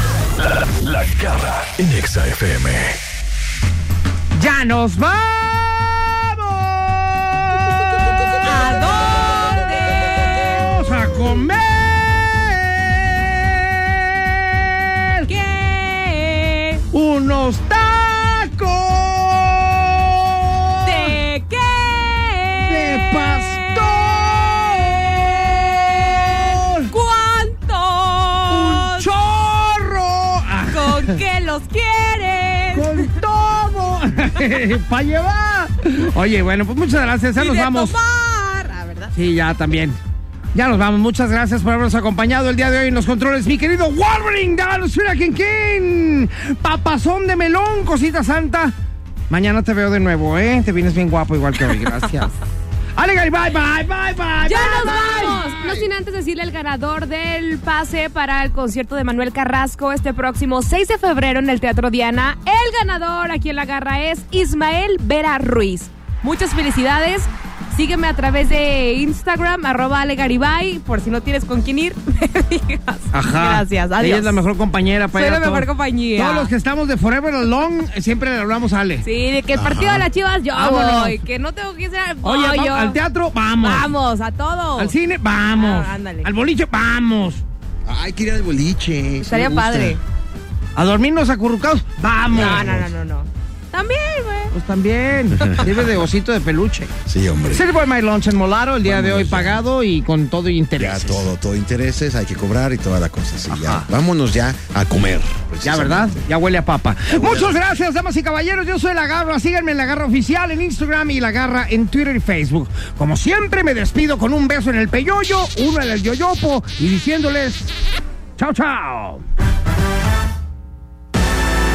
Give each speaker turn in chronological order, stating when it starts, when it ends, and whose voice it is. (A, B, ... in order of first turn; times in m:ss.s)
0:00.4-0:03.0 A
0:04.3-0:15.3 B
0:08.4-0:10.7 C
0:15.2-0:16.8 C
0:16.9-0:21.2 B
0:20.8-0:29.1 C
0:22.6-0:26.9 B
0:28.5-0:31.2 B
0:30.7-0:33.1 C
0:32.7-0:37.9 B
0:37.4-0:39.1 C
0:39.1-0:40.0 B
0:40.5-0:48.7 B
0:49.3-0:52.3 B
0:53.0-0:55.5 B
0:54.4-1:14.4 C
0:55.1-0:55.9 D
1:13.1-1:19.0 B
1:15.1-1:16.5 C
1:19.0-1:23.0 C
1:19.5-1:20.1 D
1:20.5-1:21.2 B
1:22.2-1:23.9 B
1:23.6-1:24.9 C
1:24.8-1:27.4 B
1:25.5-1:26.3 C
1:27.8-1:30.0 D
1:29.2-1:30.0 C
1:30.8-1:32.9 B
1:32.3-1:32.8 D
1:32.3-1:34.5 C
1:34.5-1:36.9 B
1:35.4-1:35.7 D
1:37.0-1:37.6 D
1:37.5-1:41.3 B
1:38.8-1:39.6 D
1:40.8-1:46.2 D
1:43.5-1:43.9 B
1:45.6-1:57.7 B
1:47.1-1:47.7 D
1:58.4-1:59.2 B